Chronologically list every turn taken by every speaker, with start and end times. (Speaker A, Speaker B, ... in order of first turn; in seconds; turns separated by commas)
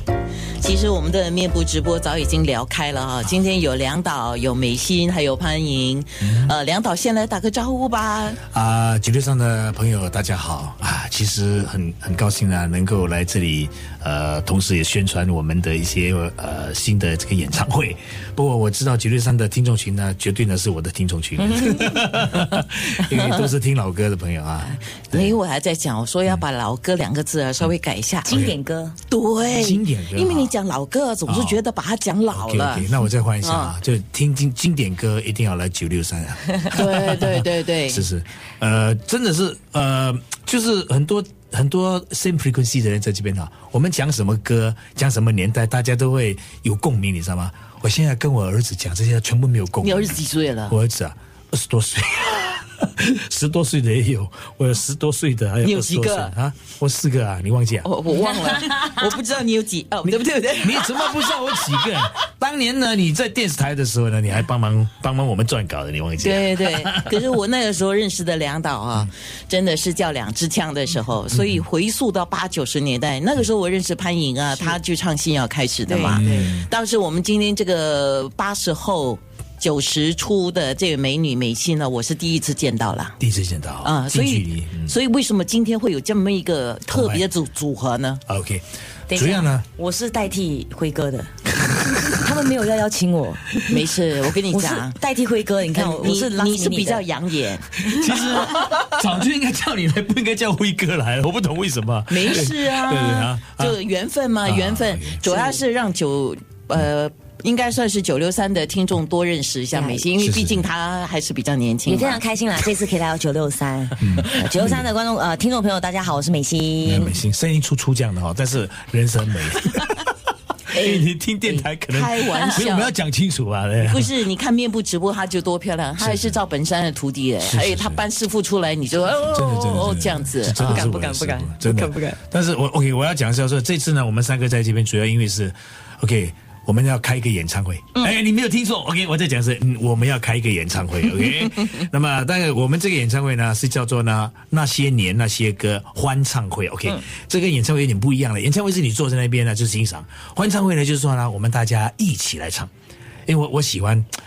Speaker A: 0.6-8.4, Speaker B: 8.5-25.4, Speaker C: 21.5-22.1, Speaker A: 23.1-23.5, Speaker A: 25.1-28.3, Speaker C: 28.2-29.0, Speaker B: 28.3-28.6, Speaker A: 29.1-32.9, Speaker B: 29.5-30.5, Speaker B: 31.3-31.6, Speaker B: 32.3-57.9, Speaker A: 33.4-33.8, Speaker A: 36.7-38.1, Speaker A: 49.8-50.8, Speaker A: 55.6-56.4, Speaker A: 57.8-61.8, Speaker B: 60.1-67.2, Speaker A: 66.2-83.2, Speaker B: 71.3-71.6, Speaker C: 75.9-76.6, Speaker B: 76.0-76.6, Speaker B: 83.2-84.9, Speaker A: 83.8-88.2, Speaker B: 86.9-87.2, Speaker B: 88.3-89.7, Speaker C: 89.1-91.3, Speaker C: 92.0-93.6, Speaker A: 93.6-95.0, Speaker C: 94.5-97.0, Speaker A: 95.7-98.1, Speaker B: 97.8-103.8, Speaker A: 102.1-112.2, Speaker B: 104.5-105.2, Speaker C: 109.7-110.0, Speaker B: 110.2-110.7, Speaker C: 111.9-117.1, Speaker B: 114.0-114.9, Speaker B: 116.8-120.1, Speaker A: 120.7-121.1, Speaker B: 120.7-124.2, Speaker A: 121.9-122.9, Speaker A: 123.8-130.8, Speaker B: 126.0-126.4, Speaker B: 127.4-128.0, Speaker B: 129.3-152.7, Speaker C: 130.6-132.2, Speaker B: 153.3-154.1